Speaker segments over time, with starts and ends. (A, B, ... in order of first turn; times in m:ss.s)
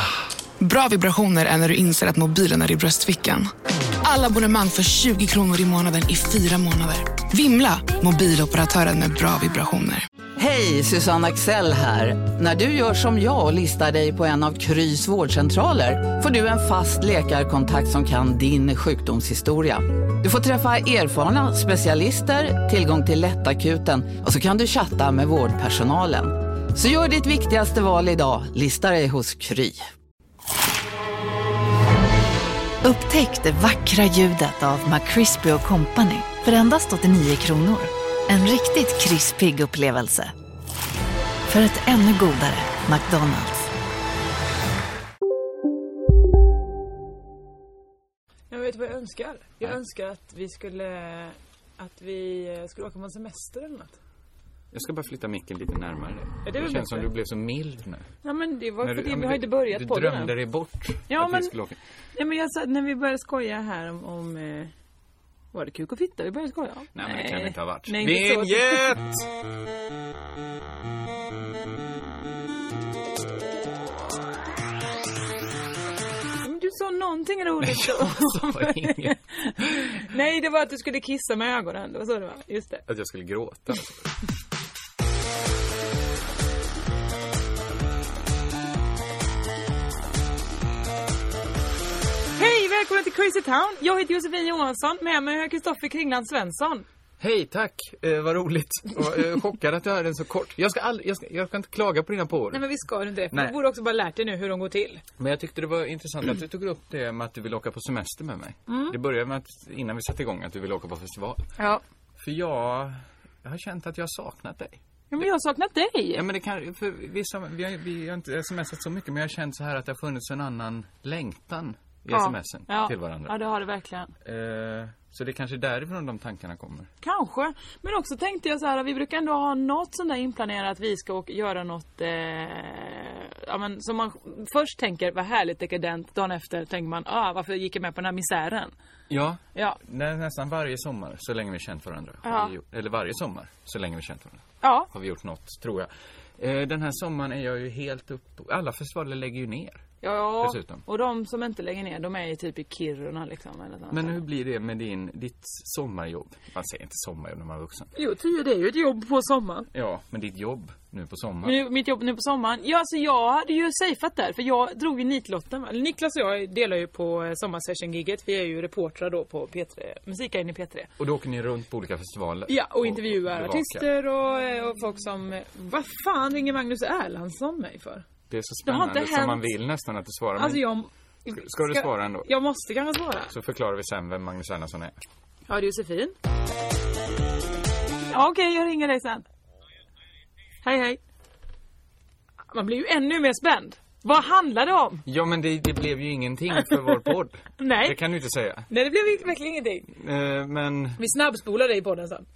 0:00.6-0:03.5 A
0:04.0-0:10.0 A
0:10.4-0:29.8 B
0:32.8-0:40.3 C
0:41.5-0:43.7 C
0:48.5-0:54.0 D
0:54.7-0:58.1 E
0:56.4-0:57.1 D
0:58.2-1:00.3 D
0:58.8-1:01.8 E
1:01.1-1:01.5 D
1:02.2-1:04.7 D
1:05.5-1:08.8 D
1:06.9-1:09.3 E
1:16.4-1:22.8 D
1:17.6-1:19.7 E
1:22.9-1:23.9 E
1:32.4-1:36.9 D
1:37.2-1:42.6 E
1:42.5-1:45.0 D
1:43.3-1:43.6 E
1:45.2-1:51.5 E
1:48.7-1:49.0 D
1:52.2-1:55.2 E
1:55.1-1:56.2 D
1:56.2-2:03.3 E
2:02.1-2:04.1 D
2:04.2-2:06.9 E
2:07.0-2:18.7 D
2:19.1-2:29.9 E
2:22.2-2:22.5 D
2:24.6-2:24.9 D
2:30.0-2:34.2 D
2:30.4-2:30.8 E
2:33.9-2:37.9 E
2:38.0-2:39.7 D
2:39.7-2:41.6 E
2:41.4-2:50.9 D
2:51.0-2:53.9 E
2:52.5-2:58.0 D
2:58.3-3:00.6 E
2:58.7-2:59.5 D
3:00.4-3:03.3 D
3:01.3-3:02.3 E
3:03.3-3:05.0 E
3:05.5-3:06.1 D
3:08.1-3:09.2 D
3:10.6-3:11.0 D
3:12.5-3:15.0 D
3:15.1-3:18.7 E
3:17.6-3:18.0 D
3:18.7-3:19.9 D
3:19.9-3:21.0 E
3:21.0-3:22.3 D